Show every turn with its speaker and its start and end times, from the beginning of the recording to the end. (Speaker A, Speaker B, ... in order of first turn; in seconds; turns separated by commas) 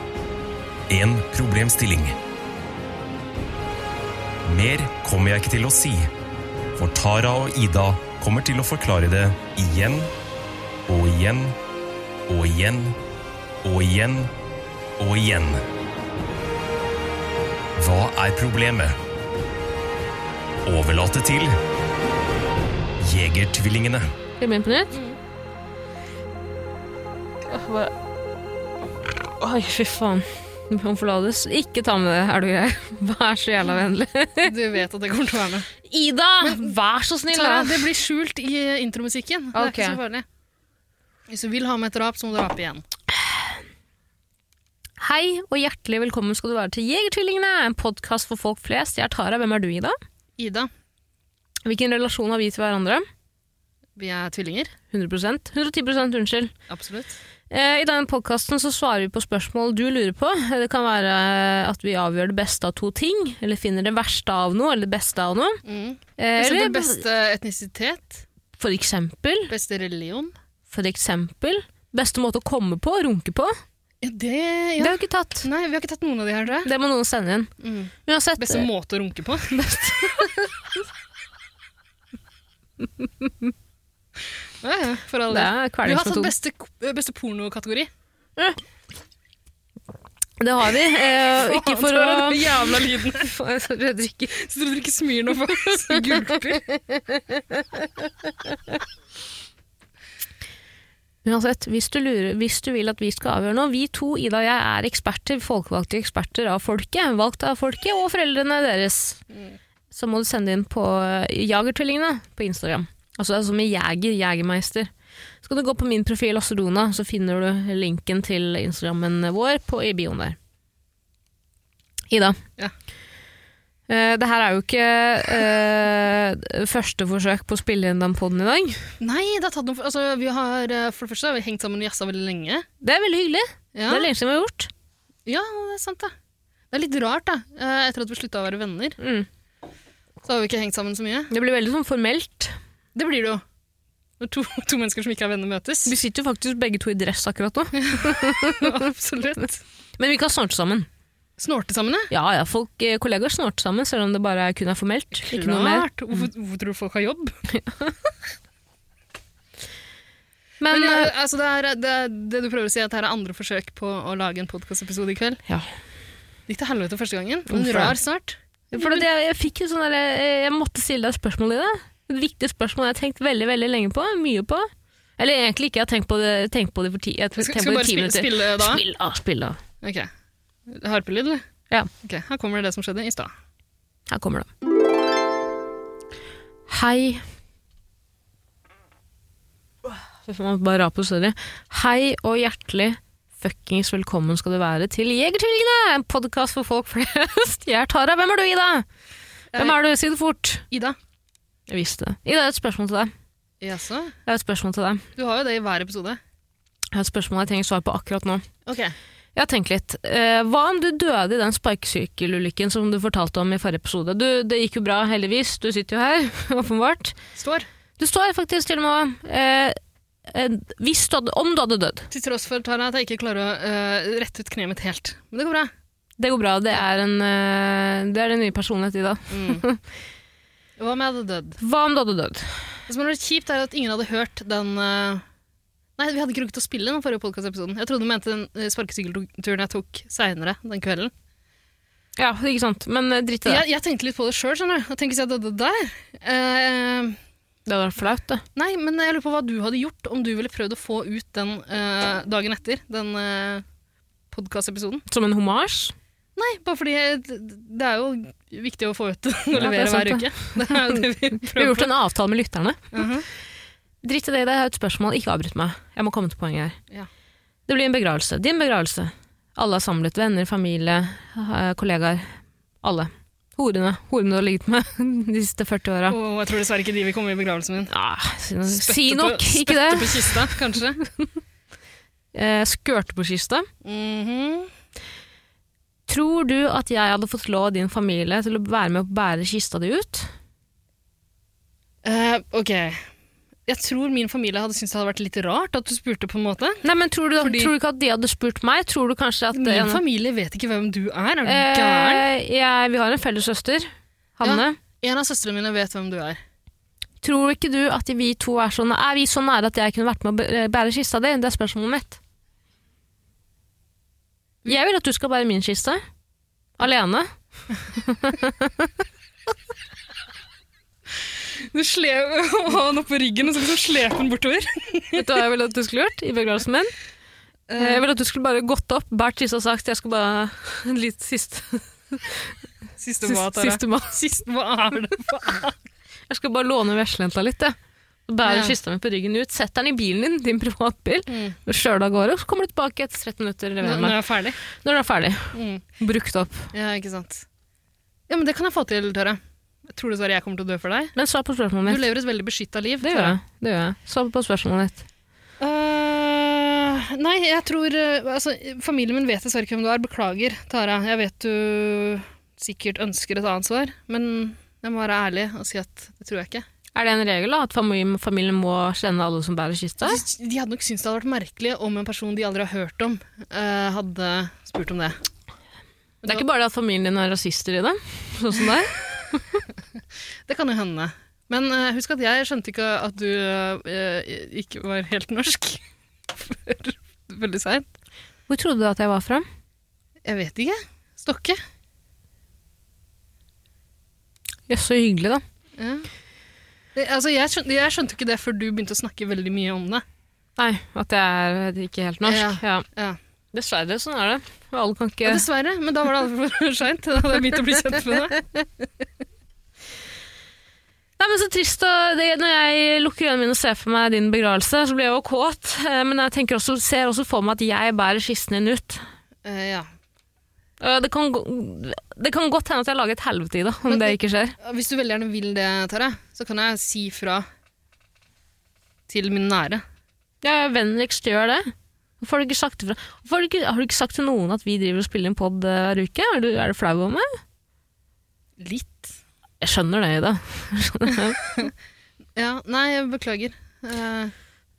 Speaker A: 0.9-2.2, Speaker A: 4.5-6.1, Speaker A: 6.8-10.1, Speaker A: 10.9-11.6, Speaker A: 12.3-13.0, Speaker A: 13.6-14.3, Speaker A: 15.0-15.6, Speaker A: 17.8-19.0, Speaker A: 20.6-21.6, Speaker A: 23.0-24.1, Speaker B: 24.4-25.0, Speaker B: 27.5-27.9, Speaker B: 29.4-34.5, Speaker C: 34.4-35.7, Speaker B: 35.8-37.9, Speaker C: 36.4-36.7, Speaker C: 37.3-40.2, Speaker B: 39.5-40.0, Speaker C: 41.3-42.8, Speaker B: 45.0-50.0, Speaker C: 50.4-50.7, Speaker B: 51.6-53.0, Speaker C: 54.0-54.7, Speaker B: 54.9-56.5, Speaker C: 56.7-57.2, Speaker B: 57.5-65.6, Speaker C: 65.7-68.2, Speaker B: 66.2-67.0, Speaker B: 68.6-69.5, Speaker C: 69.5-70.3, Speaker B: 70.7-73.5, Speaker C: 74.0-76.7, Speaker B: 74.8-75.5, Speaker B: 76.7-77.5, Speaker C: 77.6-80.5, Speaker B: 78.1-78.7, Speaker C: 84.6-87.9, Speaker B: 85.3-86.3, Speaker B: 90.4-94.4, Speaker C: 91.3-93.3, Speaker C: 94.3-96.6, Speaker B: 95.9-98.5, Speaker B: 101.2-109.2, Speaker B: 109.9-114.9, Speaker B: 115.4-120.4, Speaker B: 122.1-122.4, Speaker B: 123.9-128.9, Speaker C: 129.0-132.7, Speaker B: 132.8-134.7, Speaker C: 133.8-134.1, Speaker C: 135.3-136.1, Speaker C: 136.7-139.0, Speaker B: 139.0-139.3, Speaker C: 140.2-141.3, Speaker B: 141.3-142.6, Speaker C: 142.9-143.4, Speaker C: 144.2-145.9, Speaker B: 145.9-148.9, Speaker C: 147.8-149.6, Speaker B: 150.0-150.9, Speaker C: 151.4-152.1, Speaker B: 152.1-156.2, Speaker C: 155.3-157.3, Speaker B: 157.5-157.9, Speaker B: 160.6-161.1, Speaker C: 160.7-165.4, Speaker C: 166.5-169.1, Speaker B: 167.5-168.0, Speaker B: 168.7-179.6, Speaker C: 177.4-178.8, Speaker C: 179.8-180.1, Speaker C: 180.7-181.4, Speaker C: 182.0-183.3, Speaker B: 184.1-184.5, Speaker B: 186.7-187.2, Speaker B: 189.9-198.9, Speaker B: 199.6-200.6, Speaker C: 200.7-201.0, Speaker B: 201.7-203.1, Speaker C: 203.6-204.2, Speaker B: 204.3-205.1, Speaker C: 205.2-206.2, Speaker B: 206.9-208.4, Speaker C: 208.7-208.9, Speaker B: 209.3-217.2, Speaker C: 217.4-217.7, Speaker B: 218.0-222.1, Speaker C: 222.1-225.7, Speaker B: 226.2-229.8, Speaker C: 229.3-229.6, Speaker C: 230.8-231.6, Speaker B: 231.6-232.7, Speaker C: 232.9-235.2, Speaker C: 236.0-241.1, Speaker B: 242.2-243.6, Speaker C: 243.4-247.2, Speaker B: 247.7-248.4, Speaker C: 248.6-253.6, Speaker C: 254.3-255.0, Speaker B: 255.1-255.9, Speaker C: 256.4-261.9, Speaker B: 259.6-263.0, Speaker C: 262.9-263.3, Speaker B: 264.0-266.8, Speaker B: 267.7-276.2, Speaker C: 276.1-277.9, Speaker B: 277.9-281.3, Speaker C: 278.7-281.0, Speaker B: 282.3-283.7, Speaker C: 283.8-284.7, Speaker B: 286.1-290.3, Speaker C: 292.0-293.1, Speaker C: 293.7-296.9, Speaker B: 296.8-300.0, Speaker C: 297.4-297.7, Speaker C: 299.6-302.3, Speaker B: 301.4-304.8, Speaker C: 304.4-306.4, Speaker B: 307.2-312.2, Speaker B: 314.6-316.0, Speaker B: 316.8-317.3, Speaker B: 317.9-318.9, Speaker C: 321.7-325.3, Speaker B: 325.2-326.9, Speaker C: 327.7-328.0, Speaker B: 327.8-332.5, Speaker C: 333.0-335.8, Speaker B: 333.3-334.2, Speaker B: 336.3-337.8, Speaker B: 338.3-344.2, Speaker C: 338.4-338.8, Speaker C: 341.3-341.6, Speaker C: 343.8-344.6, Speaker B: 344.7-346.7, Speaker C: 345.5-345.8, Speaker C: 346.7-347.4, Speaker C: 348.3-351.1, Speaker B: 351.1-352.1, Speaker C: 351.9-353.4, Speaker B: 353.0-355.0, Speaker C: 355.6-366.6, Speaker B: 367.0-370.2, Speaker C: 370.1-375.2, Speaker B: 376.2-379.6, Speaker C: 380.5-387.9, Speaker B: 388.5-389.4, Speaker C: 390.2-391.6, Speaker B: 394.7-395.4, Speaker C: 395.8-396.1, Speaker C: 397.0-400.0, Speaker B: 400.6-402.9, Speaker C: 402.3-403.2, Speaker B: 403.5-405.4, Speaker C: 405.2-408.4, Speaker B: 411.2-419.0, Speaker C: 419.4-419.9, Speaker B: 420.8-424.6, Speaker C: 423.9-427.5, Speaker C: 429.1-429.8, Speaker B: 430.4-437.3, Speaker C: 438.6-439.1, Speaker B: 439.6-441.4, Speaker C: 442.4-444.3